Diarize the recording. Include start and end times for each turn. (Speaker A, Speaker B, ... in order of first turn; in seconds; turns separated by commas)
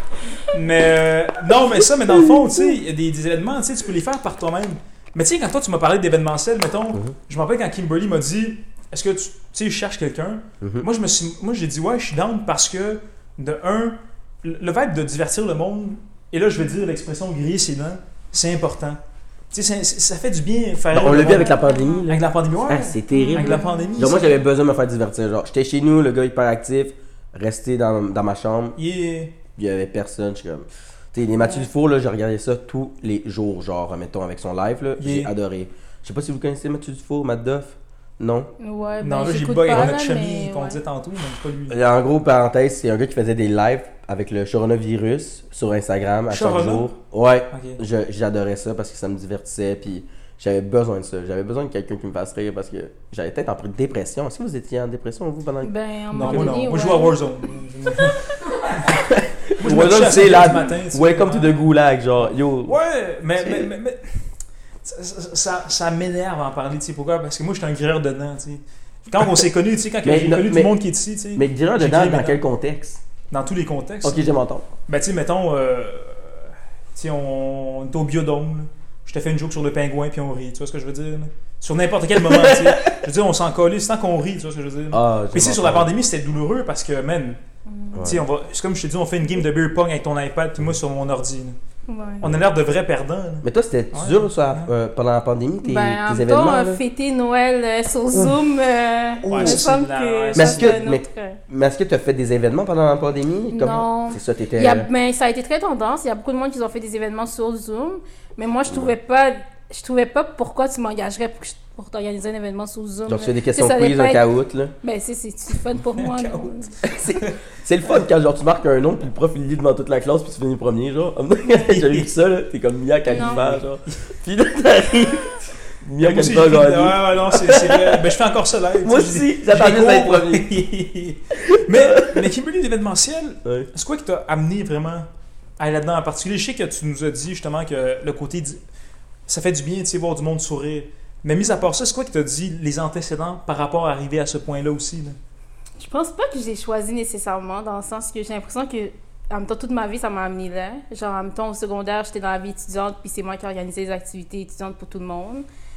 Speaker A: 0.5-19.0, Speaker B: 10.6-10.9, Speaker A: 19.5-21.6, Speaker B: 20.9-28.8, Speaker C: 21.3-22.1, Speaker A: 22.1-24.3, Speaker C: 23.1-24.3, Speaker A: 28.8-29.4, Speaker B: 29.6-38.5, Speaker C: 31.4-31.7, Speaker A: 35.0-35.3, Speaker C: 38.6-40.8, Speaker A: 39.0-41.8, Speaker B: 39.7-40.0, Speaker B: 41.7-55.7, Speaker A: 46.3-46.9, Speaker A: 47.5-47.8, Speaker C: 55.6-57.2, Speaker A: 56.1-58.9, Speaker B: 56.2-56.6, Speaker B: 58.9-62.8, Speaker A: 59.6-61.8, Speaker A: 62.6-64.2, Speaker B: 63.4-63.7, Speaker A: 64.8-72.4, Speaker B: 70.0-70.7, Speaker B: 71.4-73.0, Speaker A: 73.3-74.3, Speaker B: 74.0-74.7, Speaker A: 74.9-87.4, Speaker B: 82.2-82.8, Speaker B: 84.9-85.9, Speaker C: 87.7-88.1, Speaker B: 87.9-88.2, Speaker A: 88.0-91.6, Speaker C: 91.9-92.3, Speaker A: 92.2-94.7, Speaker B: 93.4-96.8, Speaker C: 95.6-101.4, Speaker B: 98.1-98.4, Speaker B: 99.2-99.6, Speaker A: 99.3-100.8, Speaker B: 100.3-104.9, Speaker C: 103.5-114.3, Speaker B: 113.1-114.7, Speaker C: 114.8-116.7, Speaker A: 116.0-116.5, Speaker B: 116.8-128.1, Speaker A: 121.5-122.1, Speaker C: 123.1-123.4, Speaker A: 123.2-124.0, Speaker A: 126.0-135.1, Speaker B: 128.8-130.5, Speaker B: 131.6-132.1, Speaker A: 135.6-138.6, Speaker A: 139.3-145.2, Speaker C: 145.8-155.5